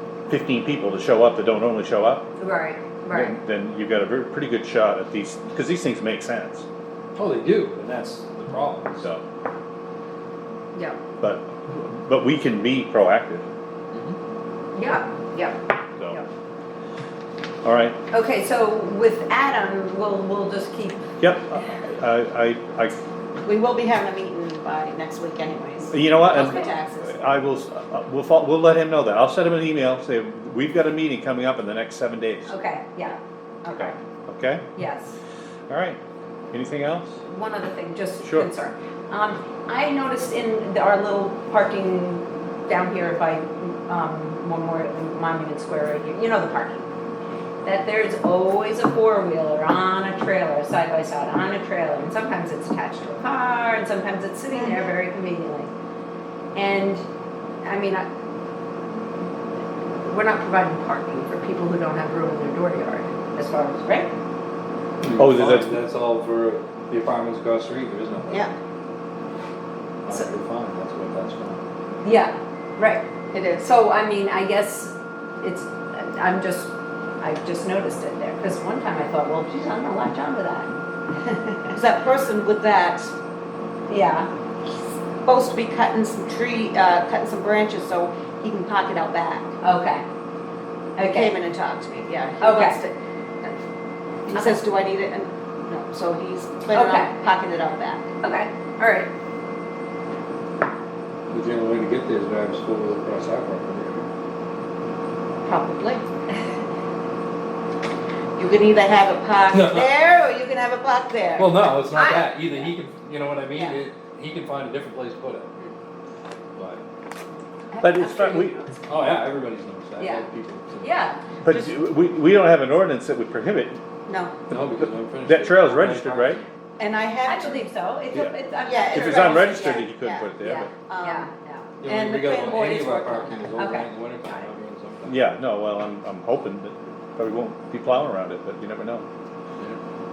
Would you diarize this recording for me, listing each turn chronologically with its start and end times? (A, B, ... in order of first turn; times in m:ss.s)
0:00.3-0:02.3 A
0:02.4-0:03.4 B
0:03.1-0:06.6 A
0:07.2-0:09.1 C
0:10.7-0:11.0 B
0:11.2-0:13.4 A
0:14.7-0:16.2 B
0:17.6-0:18.0 A
0:18.1-0:21.0 B
0:21.2-0:23.0 A
0:23.4-0:27.2 D
0:25.9-0:32.5 A
0:26.2-0:26.7 B
0:32.5-0:34.0 B
0:33.7-0:34.6 A
0:34.8-0:35.2 B
0:35.7-0:36.0 A
0:36.5-0:37.2 A
0:37.3-0:46.8 B
0:38.2-0:38.5 A
0:47.6-0:55.7 B
0:54.5-0:54.9 D
0:56.5-0:57.0 B
0:57.6-0:58.1 B
1:00.0-1:04.1 B
1:05.0-1:08.5 C
1:05.2-1:05.8 A
1:08.3-1:08.5 D
1:10.0-1:11.6 C
1:12.0-1:13.0 B
1:13.3-1:13.7 D
1:13.6-1:21.7 B
1:21.7-1:23.1 D
1:23.9-1:24.3 B
1:25.2-1:29.5 D
1:29.6-1:30.0 B
1:31.0-1:31.4 B
1:31.0-1:33.6 D
1:32.4-1:32.8 B
1:34.2-1:38.1 D
1:34.3-1:34.6 B
1:36.7-1:37.1 B
1:38.2-1:39.1 B
1:41.3-1:44.1 C
1:45.4-1:46.0 D
1:48.4-1:51.5 D
1:49.5-1:49.9 C
1:51.4-1:55.5 C
1:51.9-1:52.2 B
1:53.5-1:53.8 B
1:56.6-1:56.8 C
1:57.7-1:58.8 B
1:57.8-1:58.6 A
1:58.9-2:00.9 C
2:00.0-2:00.2 B
2:00.8-2:01.7 B
2:01.4-2:03.8 A
2:04.1-2:04.4 D
2:04.5-2:06.4 C
2:05.2-2:06.4 A
2:06.8-2:07.6 D
2:07.2-2:09.7 B
2:08.6-2:11.3 D
2:08.9-2:10.7 A
2:10.4-2:11.7 B
2:11.8-2:15.2 C
2:11.8-2:13.5 D
2:13.6-2:14.4 B
2:15.1-2:19.0 A